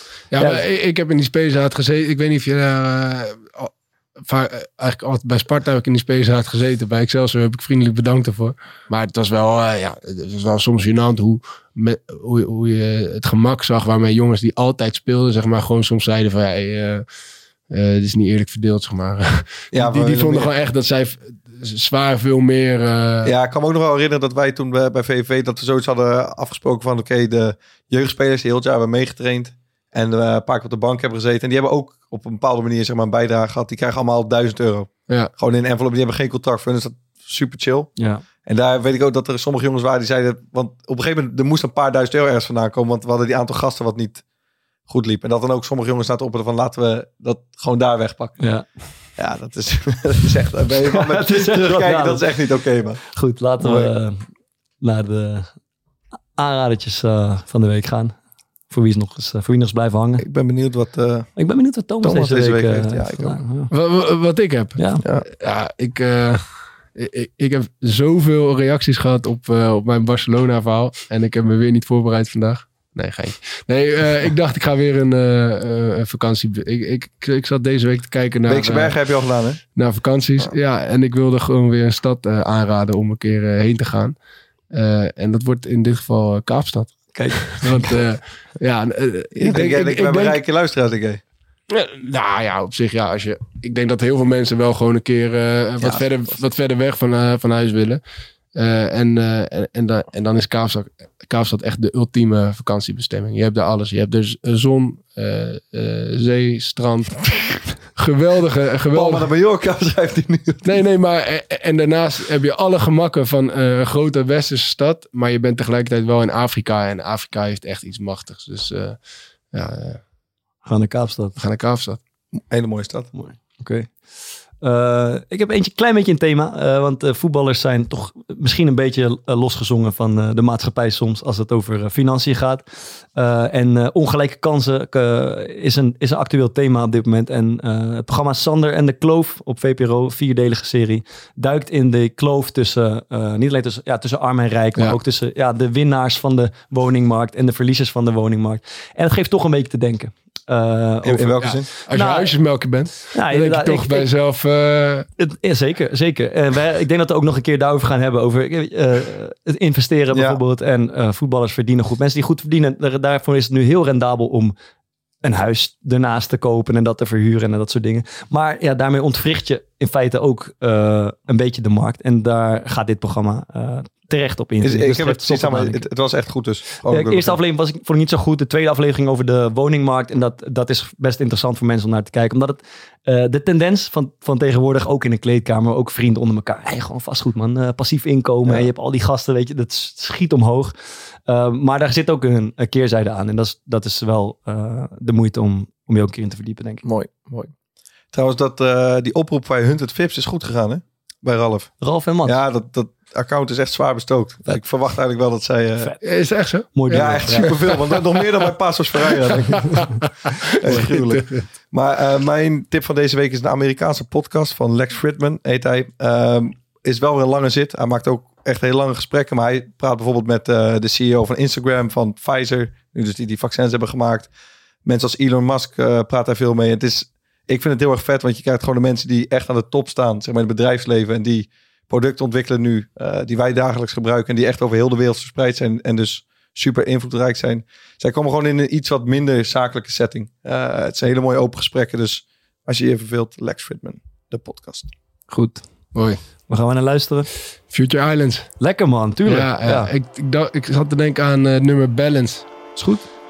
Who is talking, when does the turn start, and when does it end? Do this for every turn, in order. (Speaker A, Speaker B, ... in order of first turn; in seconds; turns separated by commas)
Speaker A: 0.3-17.1, Speaker B: 0.4-0.6, Speaker A: 17.7-23.3, Speaker C: 19.7-20.5, Speaker C: 23.2-44.2, Speaker B: 38.0-38.2, Speaker C: 44.9-48.4, Speaker B: 48.4-48.7, Speaker C: 49.2-53.0, Speaker B: 50.9-52.3, Speaker B: 53.1-54.3, Speaker C: 53.6-53.9, Speaker B: 54.8-55.5, Speaker B: 56.4-58.1, Speaker B: 58.7-60.2, Speaker C: 60.2-61.3, Speaker B: 61.4-63.7, Speaker C: 62.0-63.4, Speaker A: 63.7-79.0, Speaker B: 64.8-65.0, Speaker C: 78.5-79.6, Speaker A: 79.8-84.2, Speaker A: 84.7-90.4, Speaker B: 87.1-87.9, Speaker C: 89.3-91.2, Speaker A: 91.7-98.0, Speaker C: 95.8-96.1, Speaker A: 98.5-107.3, Speaker A: 108.0-109.3, Speaker C: 108.9-110.8, Speaker A: 110.6-119.0, Speaker A: 119.5-120.0, Speaker B: 120.7-121.4, Speaker A: 121.4-122.0, Speaker C: 122.5-123.1, Speaker B: 123.1-124.0, Speaker B: 124.6-152.3, Speaker C: 151.0-151.7, Speaker A: 151.4-155.1, Speaker B: 153.1-154.1, Speaker B: 155.2-164.5, Speaker C: 160.1-160.4, Speaker B: 165.2-175.8, Speaker C: 174.6-177.4, Speaker B: 176.9-190.7, Speaker B: 191.3-196.8, Speaker C: 196.8-197.5, Speaker C: 198.1-201.7, Speaker B: 201.8-202.4, Speaker C: 202.2-205.9, Speaker A: 206.0-208.2, Speaker B: 206.8-207.6, Speaker C: 206.9-209.9, Speaker A: 209.0-211.4, Speaker C: 210.4-224.3, Speaker C: 224.8-244.9, Speaker B: 245.3-245.6, Speaker A: 245.9-246.2, Speaker B: 246.5-247.3, Speaker A: 247.7-248.5, Speaker B: 248.6-249.9, Speaker A: 249.3-252.5, Speaker B: 252.8-253.0